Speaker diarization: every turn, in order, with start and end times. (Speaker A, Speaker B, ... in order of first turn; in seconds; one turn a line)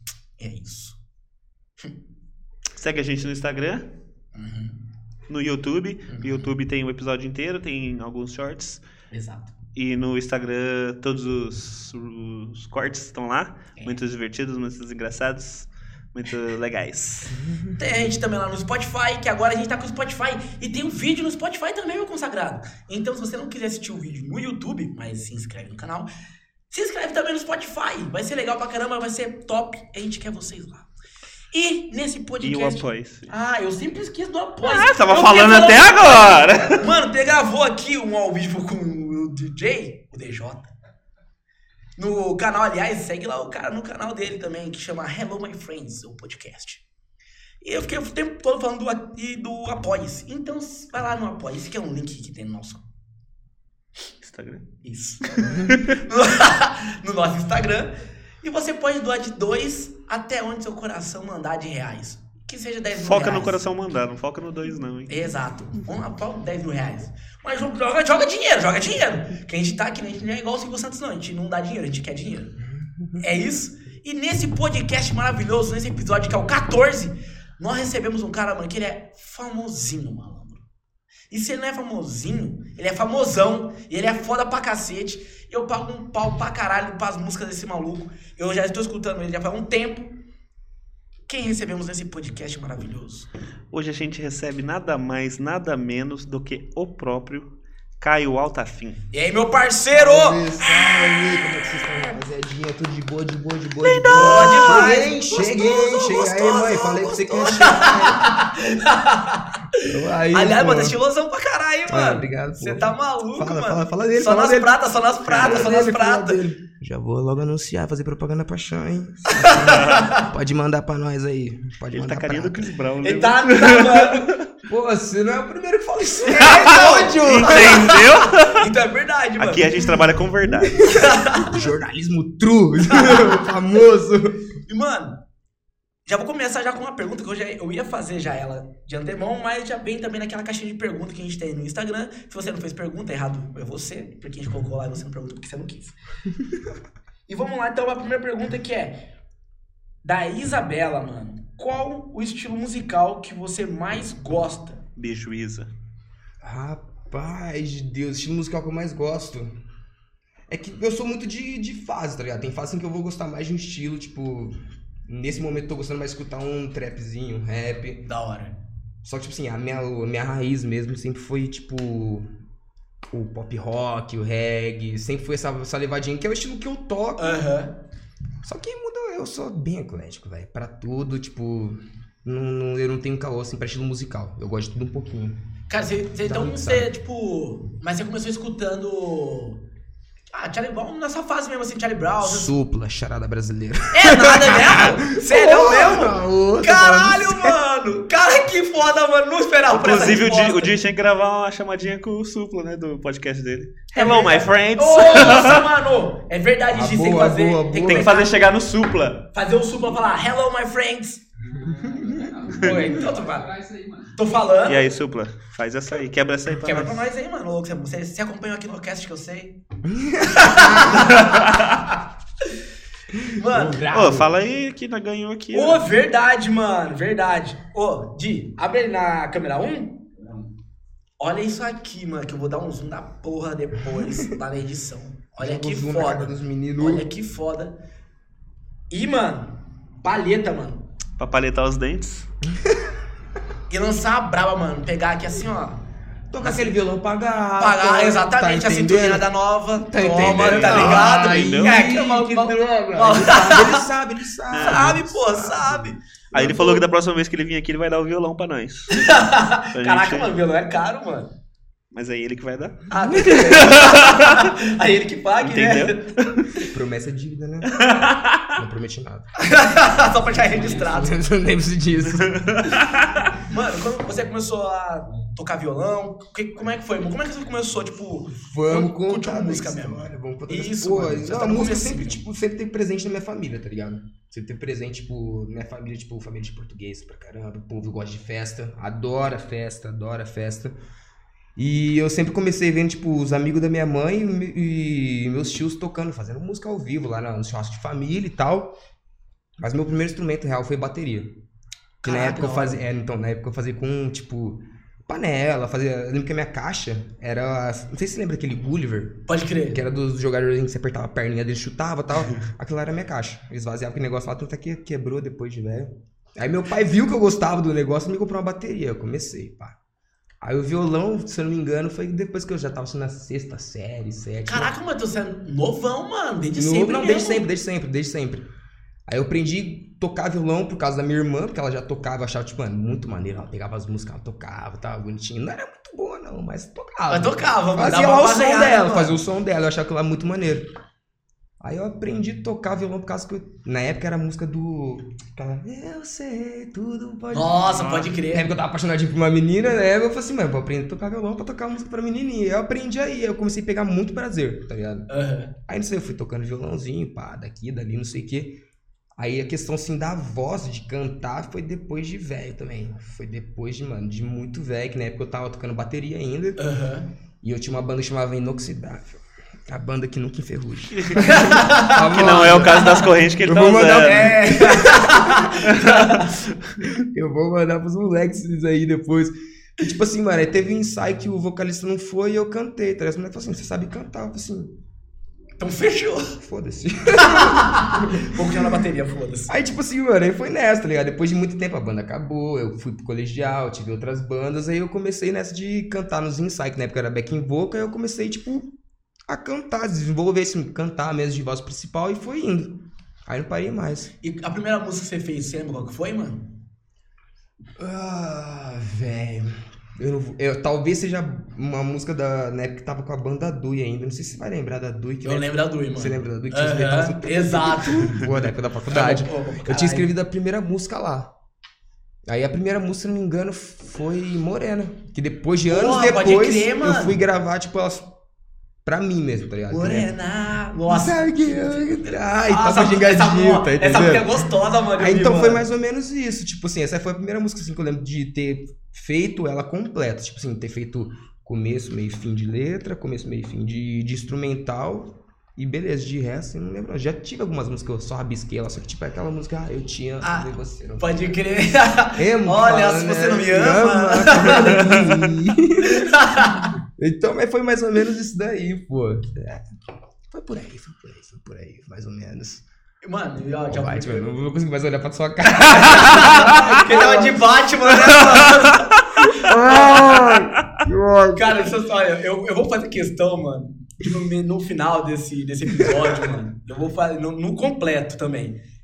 Speaker A: 0.4-1.0
Speaker B: 2.7-3.9
Speaker A: 4.3-4.8
Speaker B: 5.3-8.8
Speaker A: 6.1-6.5
Speaker A: 9.1-9.5
Speaker B: 9.7-17.4
Speaker C: 17.3-17.8
Speaker A: 17.8-26.1
Speaker A: 26.7-30.9
Speaker A: 31.5-40.7
Speaker B: 32.4-33.3
Speaker B: 34.6-36.8
Speaker A: 42.0-46.8
Speaker A: 47.6-52.8
Speaker B: 54.2-54.7
Speaker A: 54.8-63.6
Speaker B: 55.4-56.0
Speaker B: 63.0-65.1
Speaker A: 65.1-72.5
Speaker C: 72.8-73.2
Speaker A: 73.2-80.6
Speaker A: 81.3-90.1
Speaker A: 91.3-93.3
Speaker B: 93.7-99.0
Speaker A: 99.1-100.4
Speaker C: 99.9-108.4
Speaker B: 103.9-104.8
Speaker A: 104.0-116.4
Speaker C: 109.8-111.0
Speaker C: 111.9-114.7
Speaker B: 115.3-115.6
Speaker C: 115.4-122.7
Speaker A: 119.3-120.2
Speaker B: 121.9-124.5
Speaker A: 123.0-124.3
Speaker C: 124.7-128.1
Speaker A: 126.3-129.7
Speaker B: 126.6-128.7
Speaker B: 129.4-130.9
Speaker C: 130.4-134.4
Speaker A: 130.8-131.7
Speaker A: 132.9-133.4
Speaker A: 134.7-135.2
Speaker A: 136.1-146.0
Speaker A: 147.3-149.0
Speaker A: 150.0-154.8
Speaker B: 155.0-155.7
Speaker C: 156.4-159.6
Speaker C: 160.5-168.0
Speaker A: 168.1-168.6
Speaker C: 169.0-172.3
Speaker C: 173.1-177.4
Speaker A: 177.2-177.8
Speaker C: 178.4-185.3
Speaker A: 185.7-189.6
Speaker C: 186.2-186.9
Speaker A: 190.3-192.6
Speaker C: 192.2-197.5
Speaker A: 193.9-200.8
Speaker B: 199.7-205.7
Speaker A: 203.9-208.3
Speaker C: 206.7-208.1
Speaker B: 207.8-209.2
Speaker A: 209.3-211.2
Speaker D: 211.4-214.2
Speaker C: 211.9-212.3
Speaker A: 212.5-213.5
Speaker A: 214.2-214.9
Speaker B: 214.7-217.0
Speaker A: 216.6-219.6
Speaker C: 219.8-221.1
Speaker A: 220.2-222.5
Speaker B: 221.2-221.6
Speaker C: 223.1-224.3
Speaker A: 223.3-223.9
Speaker B: 223.9-225.8
Speaker A: 225.5-230.1
Speaker A: 231.2-237.8
Speaker C: 235.4-237.1
Speaker A: 238.9-240.8
Speaker B: 241.2-242.3
Speaker C: 242.5-242.9
Speaker A: 243.7-245.8
Speaker C: 246.3-249.2
Speaker A: 246.4-246.8
Speaker A: 247.6-253.8
Speaker C: 249.8-255.9
Speaker B: 250.2-251.8
Speaker B: 254.5-254.9
Speaker A: 254.6-256.8
Speaker B: 256.3-259.2
Speaker A: 258.9-261.3
Speaker B: 259.7-260.3
Speaker B: 261.9-264.5
Speaker A: 262.9-266.1
Speaker C: 263.0-263.4
Speaker B: 265.4-266.5
Speaker C: 266.6-267.8
Speaker B: 267.7-268.5
Speaker C: 268.5-269.4
Speaker A: 269.4-271.2
Speaker C: 270.3-272.7
Speaker B: 272.1-273.3
Speaker A: 273.4-282.2
Speaker C: 278.3-290.7
Speaker C: 291.6-298.7
Speaker C: 299.6-301.4
Speaker A: 302.0-302.8
Speaker C: 302.0-319.7
Speaker A: 309.3-309.8
Speaker C: 320.4-324.7
Speaker A: 324.5-327.4
Speaker C: 326.6-328.5
Speaker C: 329.1-340.7
Speaker A: 337.1-339.1
Speaker C: 341.6-355.1
Speaker A: 347.3-348.5
Speaker B: 347.7-348.1
Speaker A: 355.1-355.5
Speaker C: 355.7-358.6
Speaker C: 359.2-366.6
Speaker A: 366.6-367.1
Speaker C: 367.4-376.2
Speaker A: 371.1-372.1
Speaker B: 372.1-374.4
Speaker A: 374.1-376.2
Speaker B: 375.8-376.2
Speaker C: 376.8-384.7
Speaker A: 385.6-386.4
Speaker C: 386.4-388.6
Speaker A: 387.1-389.5
Speaker C: 389.5-398.7
Speaker C: 399.3-404.1
Speaker A: 404.2-406.5
Speaker C: 407.8-421.3
Speaker A: 415.2-418.2
Speaker A: 418.9-420.1
Speaker C: 422.3-428.1
Speaker A: 425.7-427.2
Speaker C: 428.8-430.1
Speaker A: 429.7-435.6
Speaker C: 430.9-434.4
Speaker C: 435.0-451.2
Speaker A: 450.2-455.0
Speaker C: 452.1-456.1
Speaker A: 455.8-456.7
Speaker C: 457.0-459.6
Speaker C: 460.3-462.6
Speaker A: 463.0-464.3
Speaker C: 463.7-467.6
Speaker A: 465.6-470.2
Speaker C: 469.3-471.6
Speaker A: 471.3-478.6